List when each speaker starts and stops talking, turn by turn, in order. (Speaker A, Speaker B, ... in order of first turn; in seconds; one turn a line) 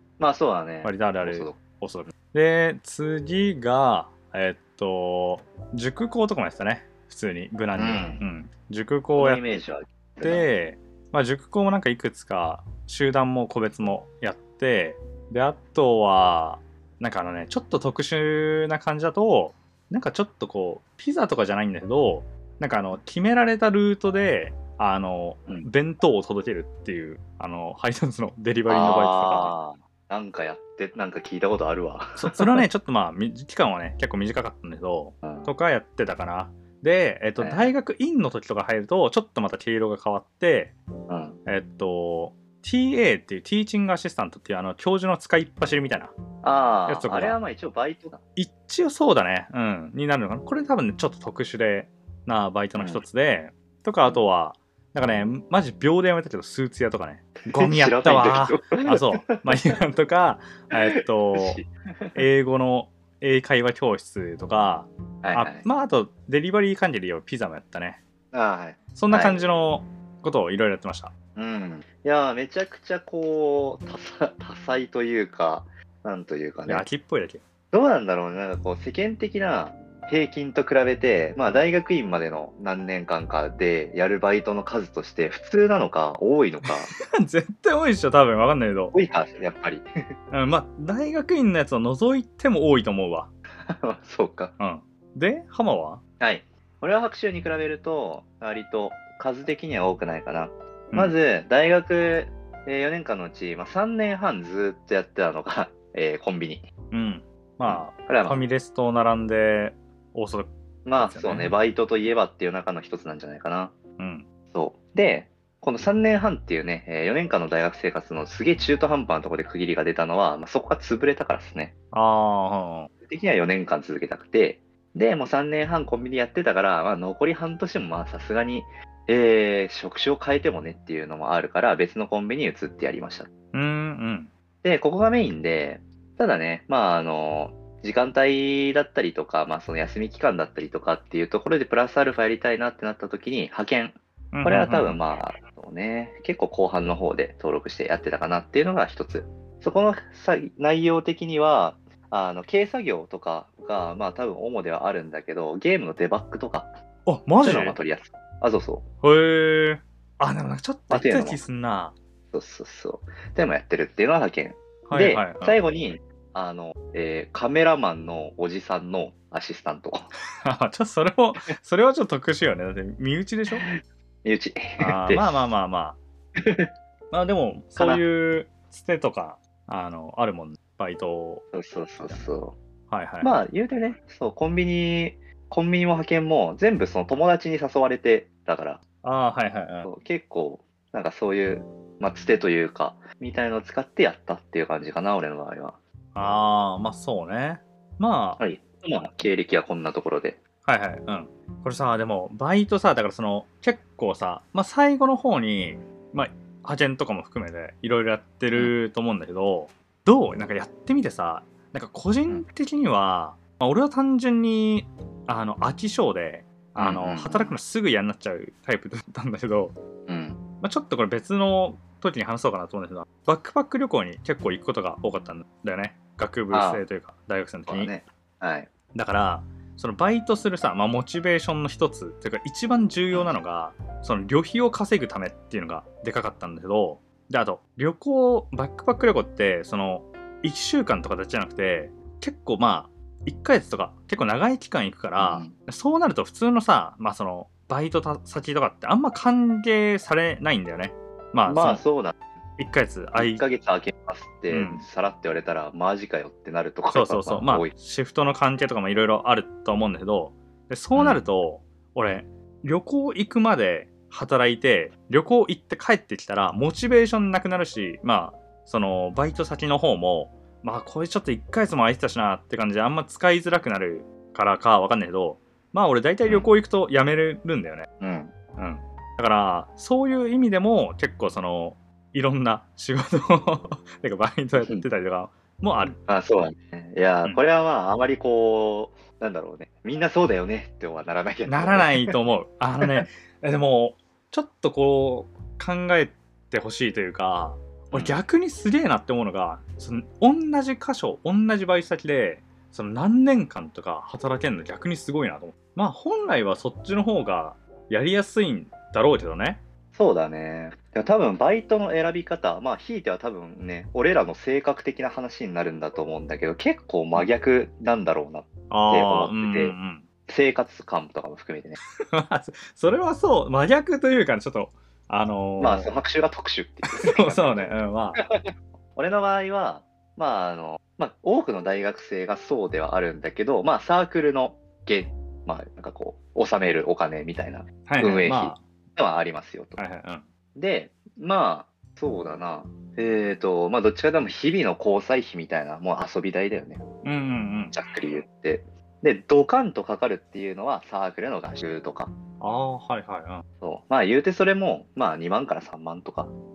Speaker A: 0.2-1.6
Speaker B: 0.8-9.4
Speaker A: 7.7-8.2
Speaker A: 9.2-10.5
Speaker B: 10.2-29.6
Speaker A: 28.7-32.6
Speaker B: 32.2-40.8
Speaker A: 35.2-35.5
Speaker A: 37.4-37.7
Speaker A: 41.1-41.4
Speaker B: 41.5-46.1
Speaker A: 46.4-48.2
Speaker B: 46.9-47.4
Speaker B: 48.3-61.6
Speaker A: 57.5-59.3
Speaker A: 60.8-62.1
Speaker B: 62.1-68.0
Speaker A: 65.2-65.7
Speaker A: 68.3-69.4
Speaker B: 68.9-71.1
Speaker A: 71.3-76.8
Speaker B: 76.7-77.4
Speaker A: 77.7-86.9
Speaker B: 86.6-89.0
Speaker A: 88.9-89.9
Speaker B: 90.3-93.3
Speaker A: 93.7-94.5
Speaker B: 94.6-96.0
Speaker A: 96.2-106.7
Speaker B: 106.9-111.5
Speaker A: 107.6-108.4
Speaker A: 110.8-113.7
Speaker B: 114.0-114.2
Speaker A: 114.5-121.7
Speaker B: 121.9-122.9
Speaker A: 123.1-133.3
Speaker B: 133.5-134.3
Speaker A: 134.6-156.8
Speaker B: 144.3-145.0
Speaker B: 157.1-157.8
Speaker A: 157.4-158.8
Speaker B: 159.0-161.9
Speaker A: 160.9-161.4
Speaker A: 162.3-170.1
Speaker B: 164.9-165.6
Speaker B: 170.4-173.7
Speaker A: 173.5-175.4
Speaker B: 174.8-176.0
Speaker A: 176.4-176.7
Speaker B: 177.1-181.4
Speaker A: 177.8-178.0
Speaker A: 181.5-182.6
Speaker B: 182.9-183.3
Speaker A: 183.2-188.8
Speaker B: 189.0-189.9
Speaker A: 189.8-195.8
Speaker B: 196.1-198.4
Speaker A: 198.4-200.4
Speaker B: 200.6-219.8
Speaker A: 216.8-217.6
Speaker A: 220.1-220.4
Speaker B: 220.6-227.9
Speaker A: 226.5-226.8
Speaker A: 227.7-228.7
Speaker B: 228.9-251.8
Speaker A: 245.2-245.5
Speaker A: 251.4-252.1
Speaker B: 252.6-253.4
Speaker A: 253.2-257.7
Speaker B: 254.5-254.8
Speaker B: 256.9-277.9
Speaker A: 260.9-261.2
Speaker A: 278.0-278.3
Speaker B: 278.6-286.0
Speaker A: 284.6-284.8
Speaker A: 286.1-292.1
Speaker B: 291.4-309.6
Speaker A: 297.9-298.2
Speaker A: 309.9-319.8
Speaker B: 318.7-320.0
Speaker A: 320.3-321.8
Speaker B: 322.0-325.9
Speaker A: 325.6-328.4
Speaker B: 326.9-328.2
Speaker A: 328.9-339.8
Speaker B: 337.9-338.6
Speaker B: 339.8-340.2
Speaker A: 340.6-346.8
Speaker B: 347.0-347.7
Speaker A: 347.7-352.1
Speaker B: 352.4-353.4
Speaker A: 353.6-356.3